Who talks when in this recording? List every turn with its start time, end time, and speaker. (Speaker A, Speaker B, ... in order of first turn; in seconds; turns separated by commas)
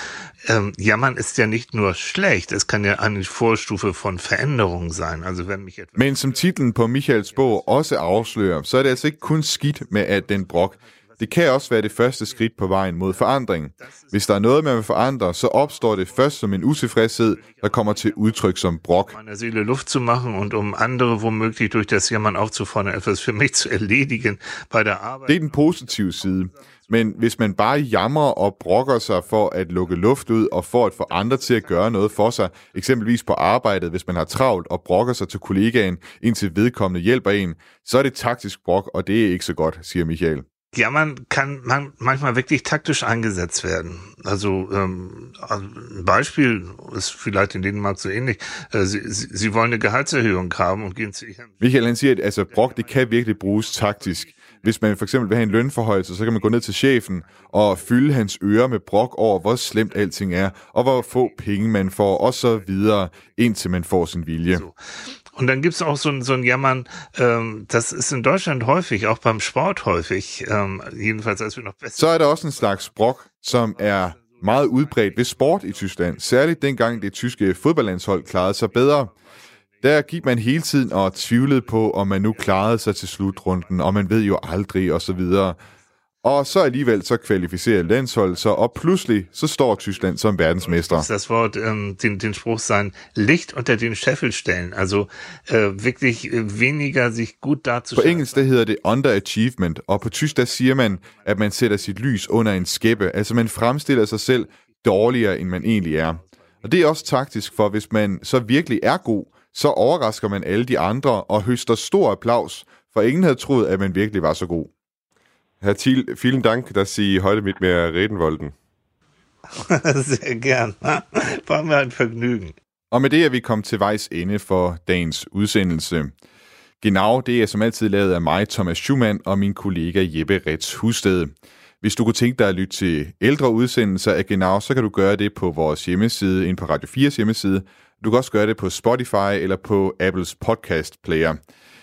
Speaker A: 0.4-6.2, Speaker B: 6.0-19.1, Speaker A: 19.1-25.4, Speaker B: 25.2-40.4, Speaker A: 40.7-51.5, Speaker B: 51.6-64.6, Speaker A: 64.5-64.7, Speaker A: 65.3-72.2, Speaker B: 72.0-79.1, Speaker B: 79.8-85.6, Speaker B: 86.2-91.1, Speaker A: 90.6-98.3, Speaker B: 97.9-114.7, Speaker C: 115.6-118.5, Speaker A: 119.6-122.5, Speaker B: 122.9-126.1, Speaker B: 126.8-141.4